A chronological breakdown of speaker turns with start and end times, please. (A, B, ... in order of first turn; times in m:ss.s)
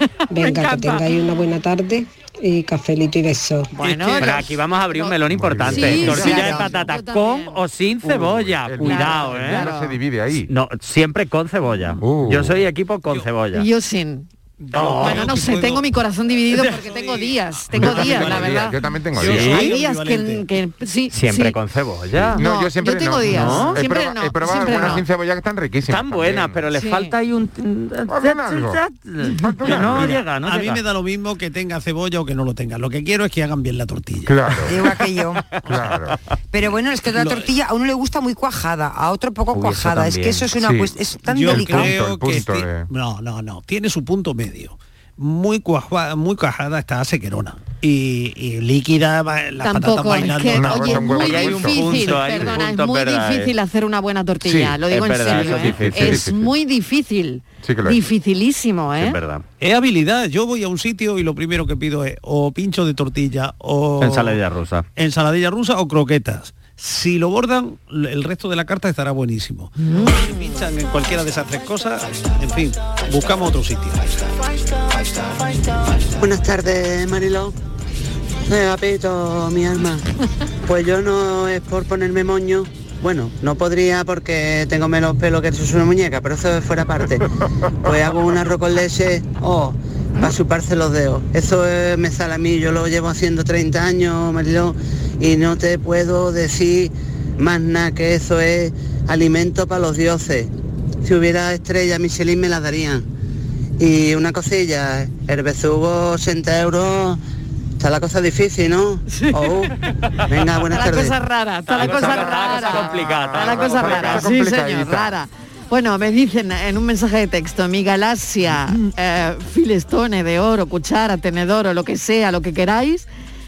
0:00.3-0:03.7 A
0:00.3-0:01.2 B
0:03.7-0:07.6 B
0:03.8-0:09.7 C
0:04.1-0:04.4 D
0:05.3-0:06.6 E
0:06.0-0:06.7 F
0:08.0-0:10.5 E
0:08.8-0:10.0 B
0:10.5-0:13.7 C
0:12.0-0:12.6 E
0:13.5-0:14.3 B
0:14.6-0:15.9 D
0:14.7-0:15.3 C
0:15.0-0:18.8 B
0:16.5-0:20.5 D
0:17.7-0:19.6 E
0:19.2-0:19.7 C
0:19.3-0:21.6 B
0:21.1-0:22.4 C
0:22.3-0:26.6 E
0:22.4-0:25.0 B
0:23.3-0:23.8 C
0:25.9-0:30.8 C
0:26.8-0:27.1 B
0:28.1-0:30.1 E
0:29.7-0:34.7 D
0:34.3-0:34.8 E
0:34.6-0:35.4 F
0:35.6-0:36.2 E
0:36.5-0:42.0 F
0:37.2-0:37.5 D
0:39.5-0:40.5 C
0:40.6-0:40.9 E
0:41.3-0:51.6 D
0:41.5-0:42.9 E
0:49.6-0:59.2 B
0:50.5-0:52.6 E
0:51.0-0:53.5 C
0:54.4-0:56.5 E
0:54.7-0:56.3 C
0:57.6-0:58.0 E
0:59.0-0:59.4 C
0:59.6-1:04.4 D
1:04.0-1:04.8 C
1:05.0-1:14.2 D
1:09.9-1:10.2 B
1:16.2-1:17.5 G
1:18.5-1:20.0 G
1:20.7-1:27.3 G
1:27.8-1:40.5 G
1:41.0-1:43.1 G
1:43.8-1:47.2 G
1:47.8-1:49.7 G
1:49.1-1:49.4 B
1:50.3-1:51.2 G
1:50.7-2:03.1 B
1:51.7-1:54.3 C
1:52.0-1:55.1 E